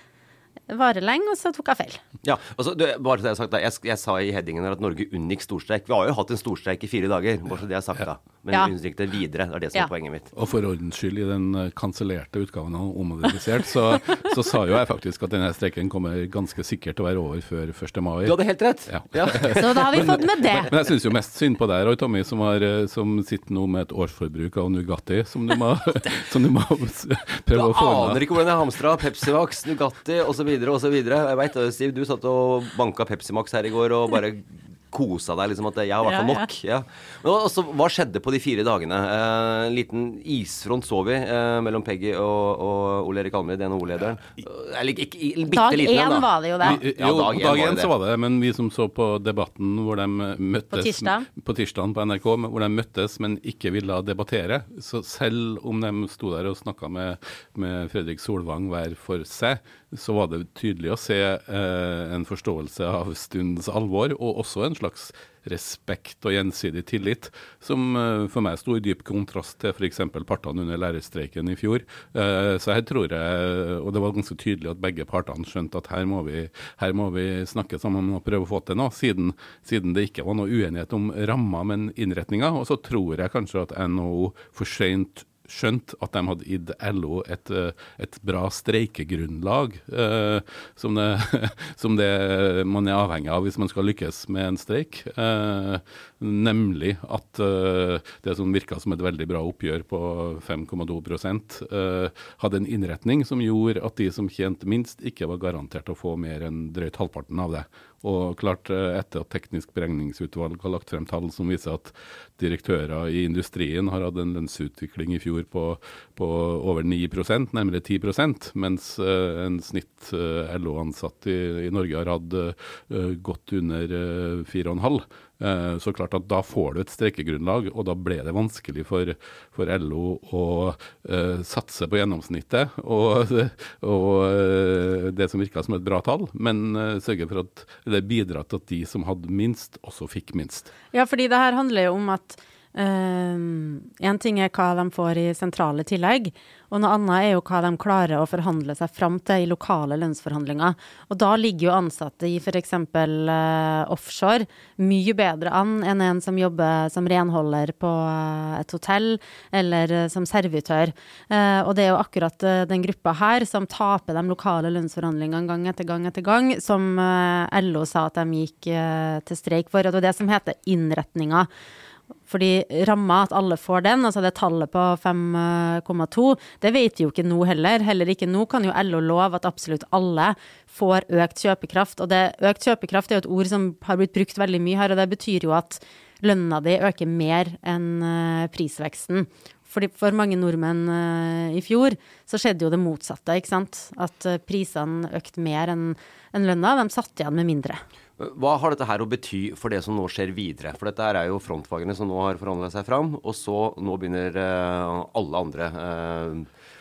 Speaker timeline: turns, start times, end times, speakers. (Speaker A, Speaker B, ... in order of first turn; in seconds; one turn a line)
Speaker A: 0.7-2.0
Speaker B: 2.2-10.3
Speaker C: 10.3-28.2
Speaker B: 18.2-20.6
Speaker A: 19.6-20.7
Speaker B: 27.5-47.9
Speaker A: 36.0-36.5
Speaker A: 45.5-46.8
Speaker C: 46.6-140.7
Speaker A: 50.7-51.2
Speaker A: 140.9-171.5
Speaker A: 172.3-197.8
Speaker B: 198.2-206.5